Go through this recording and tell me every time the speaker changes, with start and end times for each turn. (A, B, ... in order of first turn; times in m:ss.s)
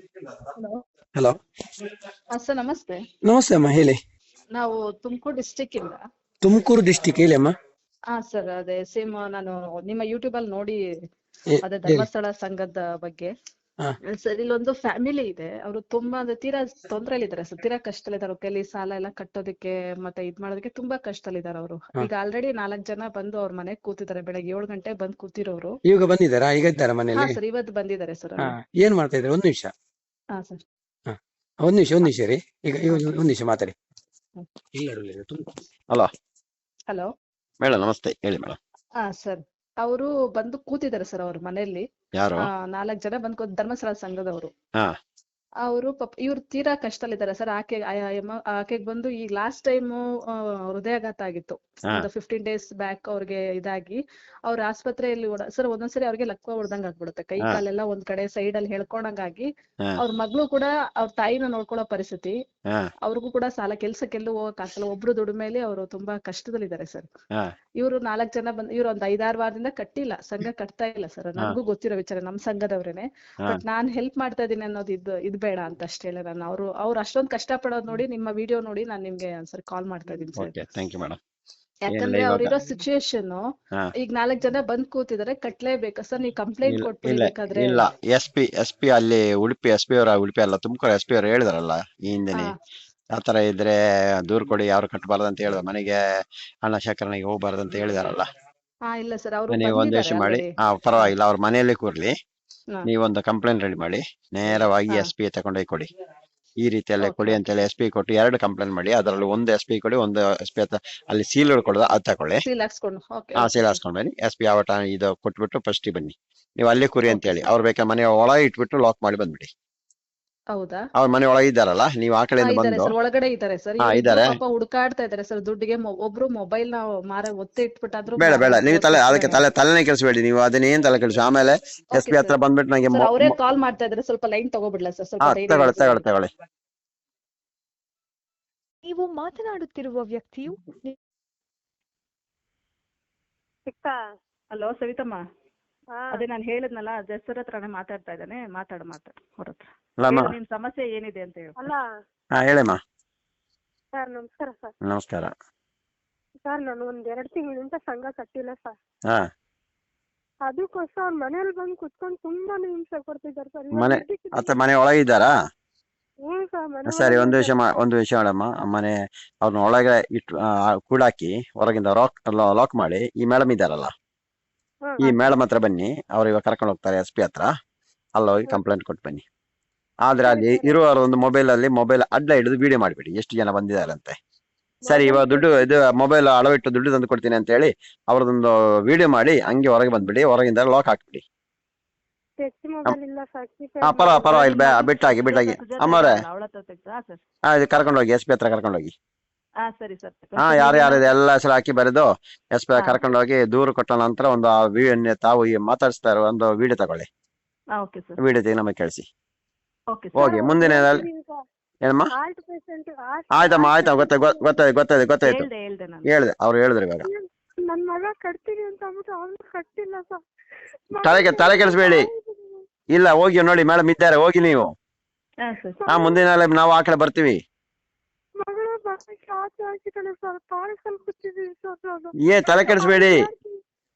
0:02.4-0:03.0 A
0:03.2-0:04.0 B
0:04.5-0:06.0 A
0:06.4-0:07.5 B
0:08.1-0:10.8 A
0:11.5-0:12.1 B
0:11.6-0:13.3 A
0:14.2-0:25.7 A
0:25.8-0:27.4 B
0:27.1-0:28.5 A
0:28.4-0:29.7 B
0:30.3-0:30.6 A
0:31.1-0:33.7 B
0:34.7-0:35.5 B
0:37.6-0:38.6 C
0:39.0-0:41.8 A
0:42.2-0:42.5 C
0:42.4-0:44.5 A
0:45.6-0:59.5 A
1:00.0-1:02.3 A
1:03.0-1:07.1 A
1:07.8-1:20.5 A
1:20.4-1:21.2 C
1:21.9-1:23.4 A
1:21.9-1:22.5 C
1:24.0-1:27.8 A
1:26.6-1:32.5 C
1:33.2-1:36.0 C
1:36.6-1:38.3 C
1:38.9-1:41.1 A
1:39.5-1:42.1 C
1:42.8-1:45.9 C
1:46.6-1:52.4 C
1:47.0-1:47.4 A
1:52.4-1:53.8 A
1:53.4-1:59.5 C
1:57.1-1:57.5 A
2:00.5-2:00.8 A
2:01.0-2:02.9 C
2:02.4-2:09.4 A
2:03.8-2:04.4 C
2:08.2-2:13.4 C
2:11.9-2:12.4 A
2:12.9-2:16.0 A
2:15.2-2:16.3 C
2:18.8-2:21.0 D
2:23.7-2:24.0 E
2:24.5-2:25.2 A
2:25.9-2:26.2 E
2:26.1-2:31.7 A
2:30.0-2:30.3 C
2:31.6-2:31.9 E
2:32.4-2:32.8 C
2:34.0-2:34.7 E
2:34.8-2:35.3 C
2:36.5-2:38.8 E
2:40.5-2:44.5 E
2:43.7-2:45.3 C
2:46.2-2:47.8 E
2:46.9-2:53.9 C
2:54.9-2:55.4 E
2:55.0-2:57.5 C
2:58.2-2:59.2 C
3:00.0-3:04.2 C
3:00.2-3:00.8 E
3:04.8-3:05.6 E
3:04.9-3:11.2 C
3:12.4-3:14.2 E
3:13.8-3:16.2 C
3:14.0-3:17.2 A
3:17.5-3:18.9 C
3:19.6-3:21.1 A
3:20.4-3:27.1 C
3:22.8-3:23.0 A
3:27.8-3:28.2 A
3:28.2-3:29.0 C
3:29.9-3:30.4 A
3:30.2-3:31.1 C
3:30.2-3:31.4 E
3:31.8-3:32.1 C
3:32.1-3:34.6 E
3:33.3-3:35.5 C
3:35.2-3:36.1 A
3:36.0-3:37.1 C
3:37.0-3:40.2 E
3:40.9-3:42.6 E
3:41.0-3:42.1 C
3:42.9-3:44.7 C
3:45.4-3:45.8 A
3:45.7-3:46.2 E
3:45.9-3:47.4 C
3:48.4-3:53.6 E
3:52.2-3:53.3 C